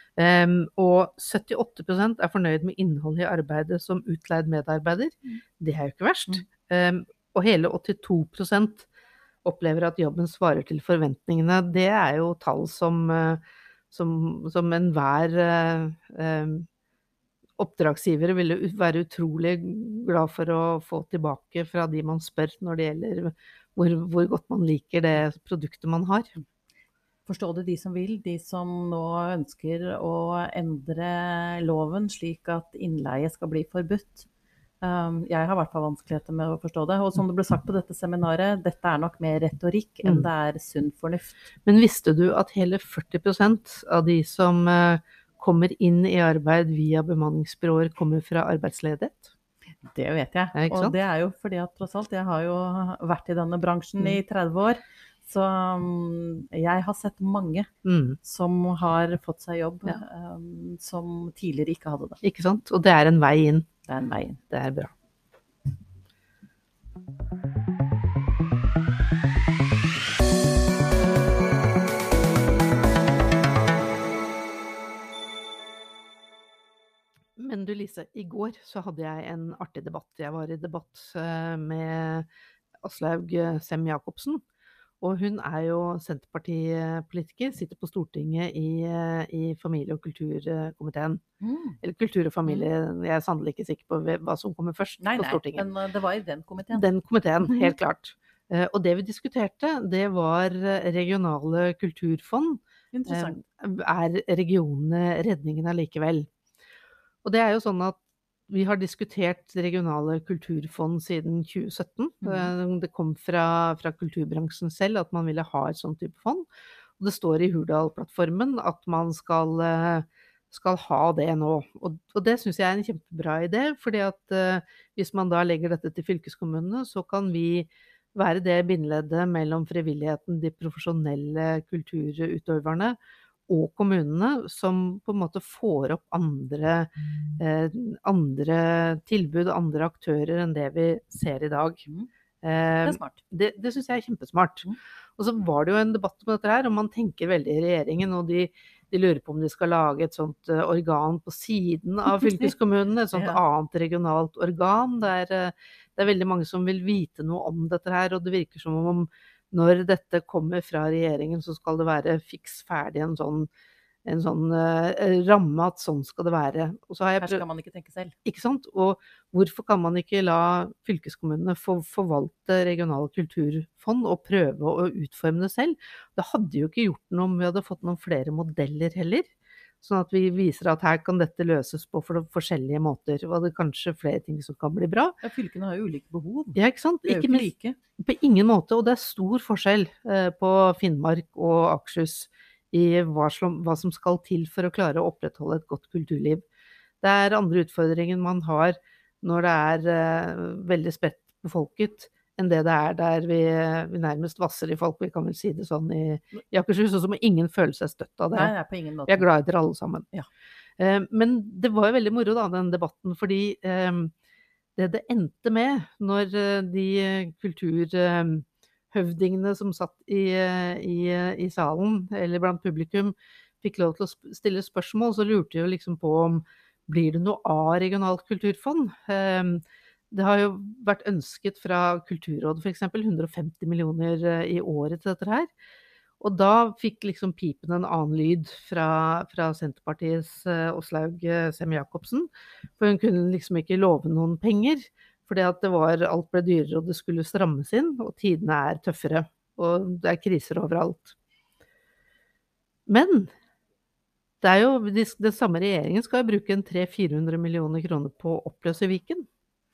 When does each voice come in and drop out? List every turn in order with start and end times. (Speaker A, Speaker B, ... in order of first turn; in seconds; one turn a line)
Speaker A: 0.2-8.9
Speaker A: 9.4-16.7
Speaker A: 17.6-26.3
Speaker B: 27.3-34.3
Speaker B: 34.8-41.5
Speaker A: 40.0-40.3
Speaker A: 41.7-49.3
Speaker B: 49.9-57.7
Speaker A: 50.5-51.0
Speaker A: 57.9-58.2
Speaker B: 58.2-62.2
Speaker A: 62.2-63.7
Speaker B: 63.9-64.4
Speaker A: 64.5-64.9
Speaker A: 77.4-82.3
Speaker A: 82.8-84.4
Speaker A: 85.0-91.2
Speaker B: 91.4-91.8
Speaker A: 91.8-95.7
Speaker B: 92.5-92.7
Speaker B: 95.0-96.9
Speaker A: 96.7-106.3
Speaker B: 97.4-97.8
Speaker B: 102.9-103.4
Speaker A: 107.2-116.5
Speaker B: 112.2-112.5
Speaker A: 117.0-133.0
Speaker A: 133.5-141.8
Speaker A: 142.4-163.5
Speaker B: 142.8-143.2
Speaker B: 152.2-152.5
Speaker B: 153.1-153.4
Speaker A: 164.1-167.4
Speaker B: 167.2-168.2
Speaker A: 168.3-185.2
Speaker B: 185.2-187.8
Speaker A: 186.6-196.4
Speaker A: 197.0-208.5
Speaker B: 208.3-209.3
Speaker A: 209.1-210.1
Speaker A: 210.8-214.1
Speaker A: 214.8-235.5
Speaker A: 236.2-251.2
Speaker A: 252.9-253.3
Speaker A: 254.4-259.3